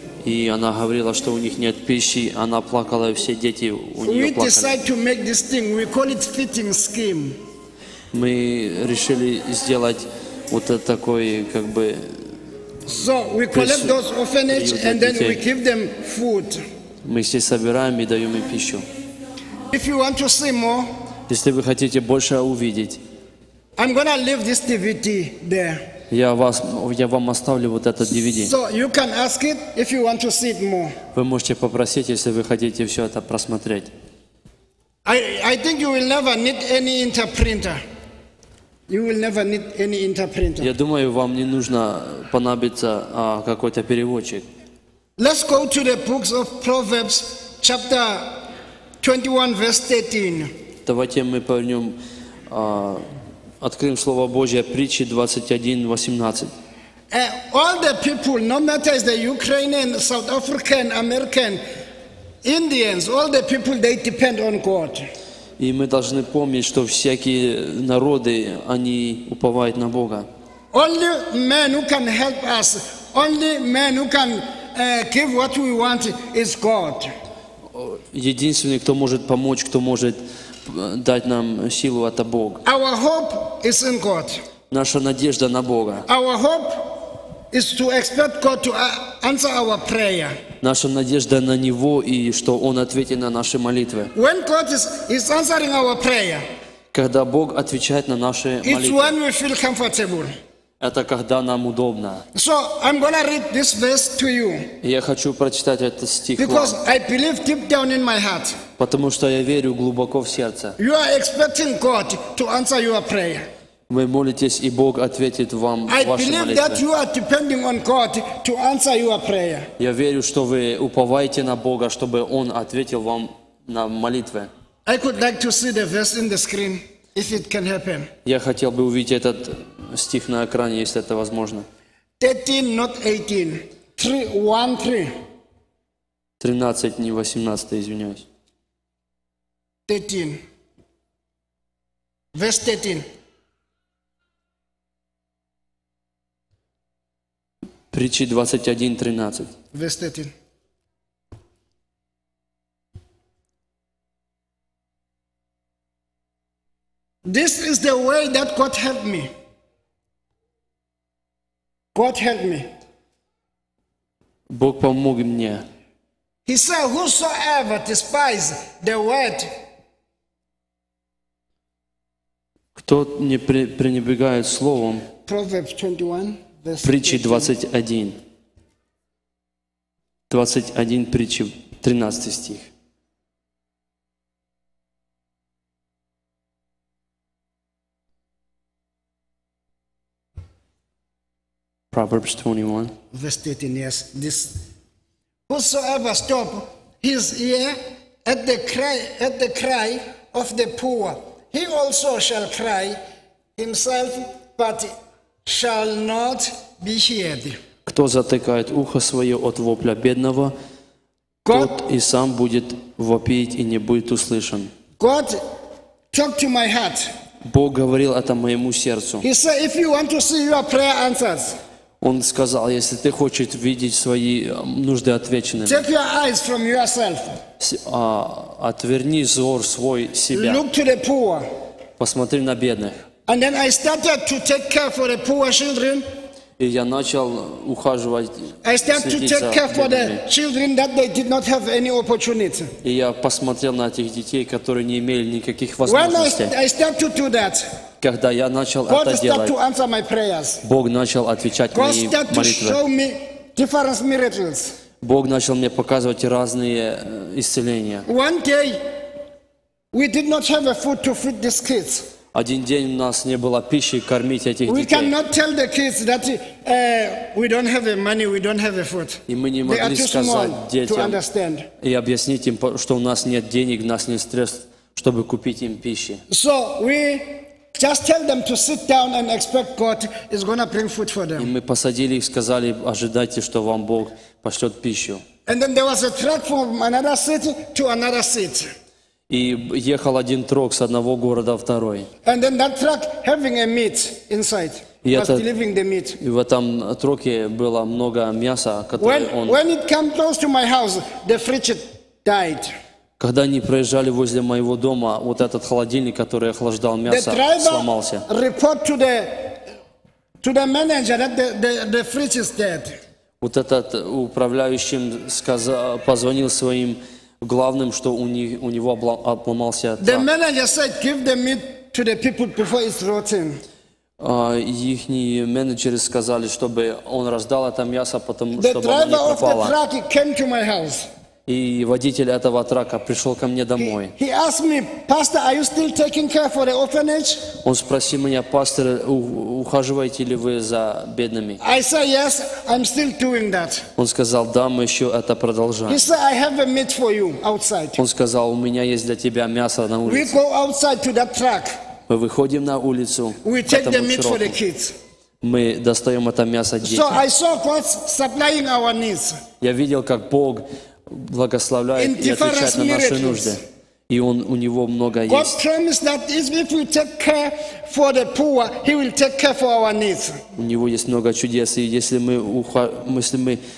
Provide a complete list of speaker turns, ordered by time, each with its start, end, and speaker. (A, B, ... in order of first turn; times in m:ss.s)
0:00.2-0:04.8 A
0:04.0-0:07.4 B
0:08.1-0:12.2 A
0:12.8-0:16.6 B
0:13.5-0:14.0 A
0:14.5-0:15.4 A
0:17.0-0:18.8 A
0:19.7-0:20.9 B
0:21.3-0:23.0 A
0:23.8-0:25.8 B
0:26.1-0:28.5 A
0:28.3-0:31.0 B
0:31.1-0:33.9 A
0:35.0-0:37.8 B
0:38.9-0:40.7 B
0:40.6-0:44.4 A
0:45.2-0:48.4 B
0:49.0-0:50.5 B
0:50.8-0:52.0 A
0:52.5-0:53.0 A
0:53.6-0:56.5 A
0:57.1-1:01.6 B
1:02.4-1:05.1 B
1:05.6-1:10.3 A
1:10.7-1:17.1 B
1:17.7-1:22.6 A
1:22.6-1:24.4 B
1:24.7-1:26.0 A
1:26.1-1:30.4 B
1:30.6-1:34.1 A
1:34.1-1:36.4 B
1:36.9-1:39.1 A
1:38.6-1:40.4 B
1:40.8-1:42.2 A
1:42.3-1:44.7 B
1:44.8-1:46.8 A
1:46.4-1:48.6 B
1:48.8-1:50.7 A
1:50.8-1:53.5 B
1:53.9-1:56.8 A
1:55.9-1:59.7 B
1:59.8-2:04.5 A
2:04.8-2:08.1 B
2:08.2-2:11.6 A
2:12.2-2:15.1 B
2:16.4-2:18.2 A
2:19.9-2:20.4 B
2:22.3-2:23.0 B
2:27.9-2:29.5 A
2:29.7-2:30.3 B
2:37.2-2:39.3 B
2:41.9-2:42.7 B
2:44.5-2:45.6 A
2:46.4-2:49.5 B
2:52.8-2:55.0 A
2:55.2-2:57.5 B
2:56.8-2:58.2 A
3:00.3-3:02.7 A
3:11.9-3:12.9 A
3:13.1-3:14.6 B
3:15.5-3:23.0 B
3:23.6-3:24.9 B
3:25.4-3:27.6 B
3:27.8-3:30.5 A
3:31.4-3:31.7 B
3:31.5-3:34.7 A
3:35.0-3:35.4 B
3:36.1-3:37.1 B
3:37.4-3:39.2 A
3:39.2-3:41.6 B
3:42.0-3:45.8 A
3:45.6-3:47.4 B
3:47.6-3:50.6 A
3:50.3-3:51.5 B
3:52.0-3:53.0 A
3:53.3-3:56.1 B
3:56.6-4:00.2 A
3:58.6-4:02.7 B
4:02.8-4:06.5 A
4:05.8-4:07.7 B
4:08.0-4:09.6 A
4:08.9-4:10.6 B
4:10.6-4:12.8 A
4:11.7-4:14.8 B
4:15.0-4:18.0 A
4:18.0-4:18.8 B
4:19.9-4:22.1 B
4:22.3-4:25.1 A
4:24.7-4:31.7 B
4:29.3-4:31.2 A
4:31.8-4:36.2 A
4:36.3-4:41.5 B
4:41.4-4:45.2 A
4:45.4-4:48.7 B
4:49.3-4:52.1 A
4:52.2-4:56.2 B
4:55.0-4:55.4 A
4:56.2-4:59.6 A
4:59.0-5:02.7 B
5:03.2-5:08.2 A
5:07.1-5:09.6 B
5:10.4-5:13.0 B
5:13.4-5:20.2 A
5:20.0-5:23.6 B
5:24.2-5:29.7 A
5:28.5-5:31.1 B
5:31.5-5:34.1 A
5:33.8-5:37.5 B
5:37.6-5:41.6 A
5:41.6-5:43.8 B
5:44.0-5:46.1 A
5:45.9-5:48.0 B
5:48.0-5:50.3 A
5:50.0-5:51.8 B
5:52.1-5:54.6 A
5:53.4-5:55.0 B
5:55.4-5:57.2 A
5:56.8-5:59.4 B
5:59.6-6:05.6 A
6:02.0-6:03.6 B
6:05.3-6:10.4 B
6:10.6-6:13.6 A